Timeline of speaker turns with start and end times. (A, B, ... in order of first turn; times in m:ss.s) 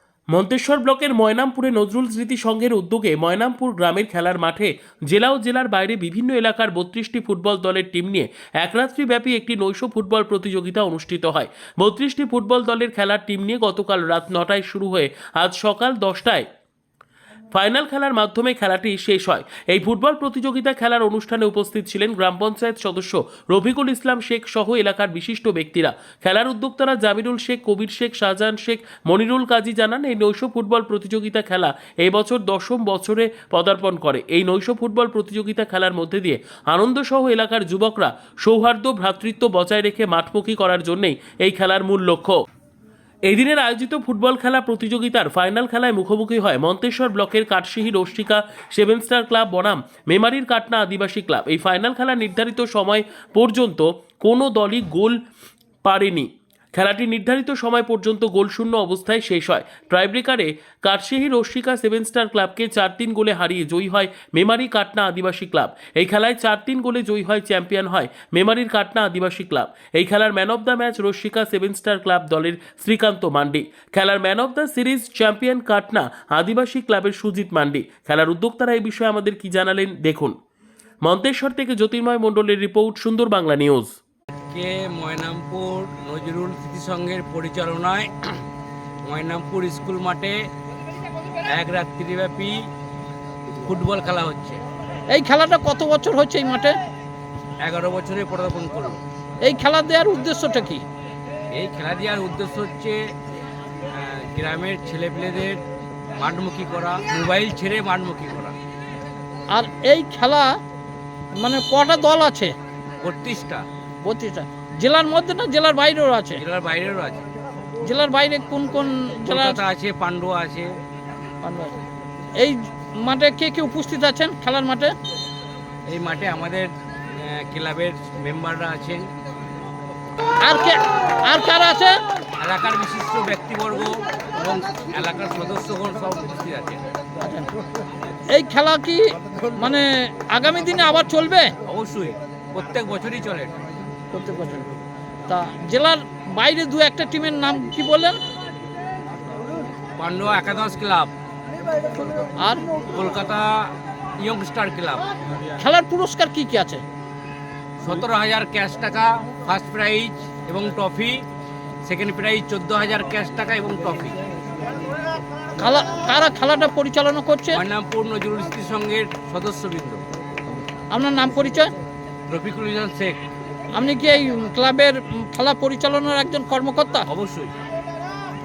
0:00.3-0:16.5 A
0:17.5-0:42.4 A
0:43.3-0:55.2 A
0:55.8-1:20.3 A
1:21.0-1:23.9 A
1:24.5-1:28.4 B
1:29.1-1:30.4 B
1:31.5-1:32.6 B
1:33.5-1:34.6 B
1:35.1-1:36.7 C
1:37.6-1:39.0 B
1:39.4-1:40.8 C
1:41.5-1:43.1 B
1:43.9-1:45.6 B
1:46.2-1:48.6 B
1:49.5-1:50.5 C
1:51.4-1:52.5 C
1:53.0-1:53.6 B
1:54.0-1:56.4 C
1:56.3-1:57.2 B
1:57.8-1:59.6 C
1:59.2-2:00.7 B
2:01.4-2:01.8 C
2:02.4-2:05.0 C
2:05.9-2:09.1 B
2:10.4-2:12.0 C
2:12.4-2:16.8 B
2:18.3-2:21.6 C
2:21.7-2:23.5 B
2:24.1-2:24.7 C
2:25.3-2:28.2 C
2:30.0-2:31.1 B
2:32.0-2:32.7 C
2:32.9-2:35.1 B
2:35.6-2:36.8 C
2:37.8-2:41.2 B
2:41.8-2:44.2 B
2:45.6-2:47.6 C
2:47.5-2:50.0 B
2:50.9-2:51.7 C
2:52.3-2:53.2 B
2:53.7-2:57.1 C
2:57.1-2:57.5 B